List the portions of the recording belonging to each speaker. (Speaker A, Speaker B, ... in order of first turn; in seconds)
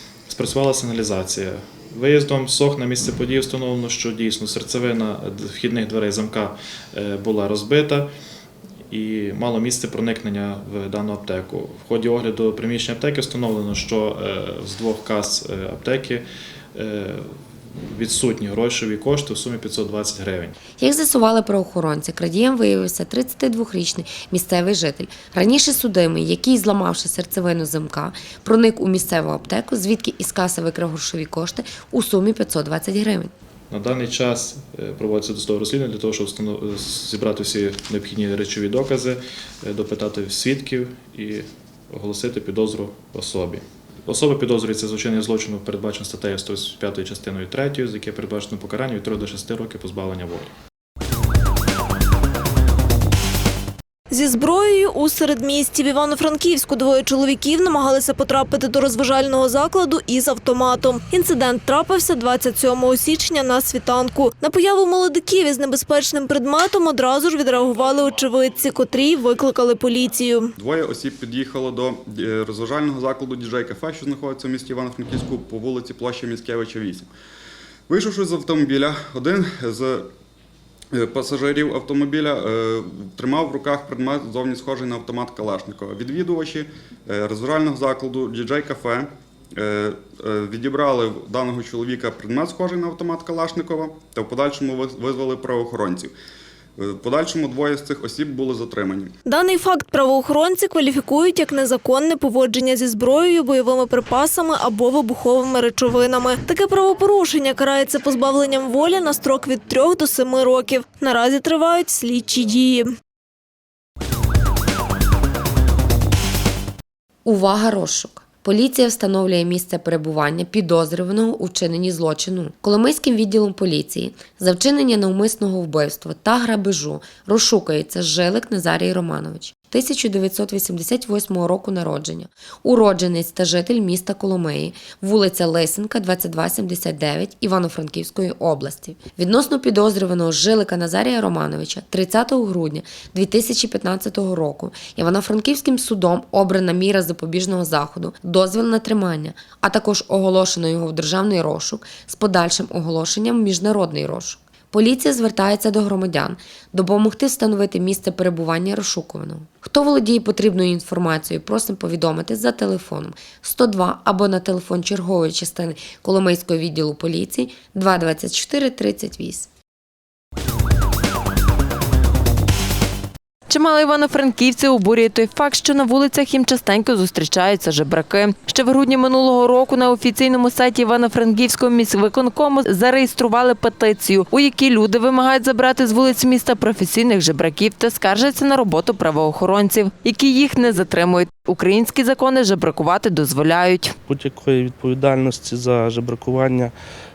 Speaker A: 0.3-8.1, 8.9-16.2, 16.8-17.3, 17.8-20.6, 33.7-50.5
Speaker B: 20.8-33.3, 117.2-169.5
Speaker C: 54.1-70.5, 99.3-112.9
Speaker D: 70.6-77.1, 77.9-80.1, 80.9-96.1, 96.8-99.1
Speaker E: 173.5-193.9
Speaker F: 194.1-196.7